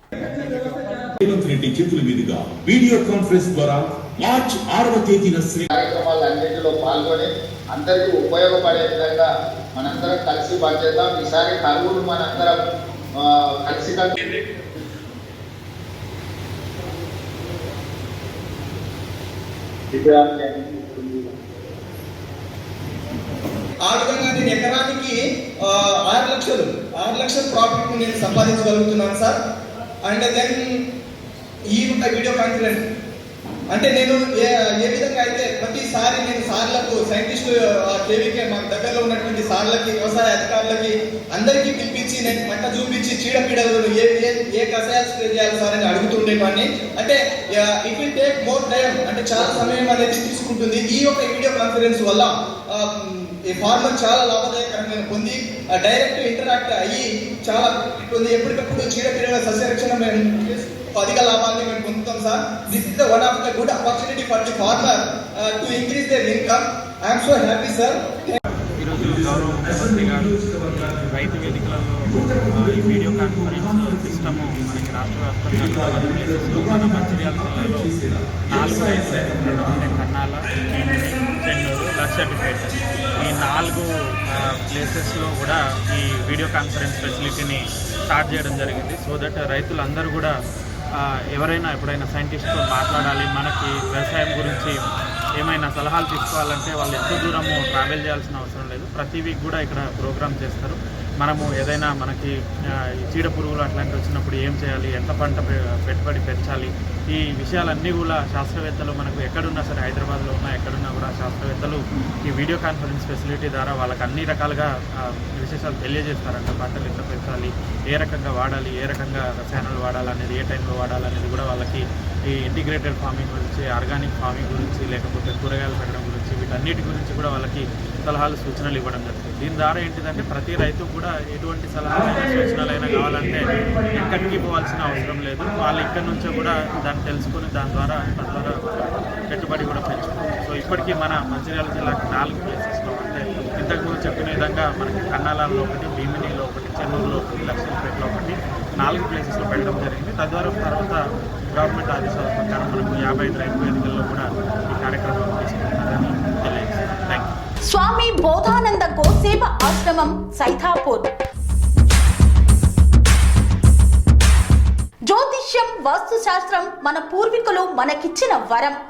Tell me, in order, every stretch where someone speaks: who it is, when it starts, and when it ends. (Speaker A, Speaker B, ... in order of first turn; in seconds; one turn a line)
Speaker A: 0.3-5.7
Speaker B: 5.7-12.6
Speaker B: 13.2-14.6
Speaker B: 19.9-21.3
Speaker C: 23.9-29.4
Speaker C: 30.0-30.6
Speaker C: 31.7-32.8
Speaker C: 33.7-68.4
Speaker D: 68.8-77.9
Speaker A: 68.9-74.8
Speaker A: 75.5-79.9
Speaker D: 78.5-90.3
Speaker D: 91.3-94.8
Speaker D: 95.4-102.3
Speaker D: 103.1-151.0
Speaker D: 151.5-157.3
Speaker E: 157.7-161.1
Speaker E: 165.1-168.8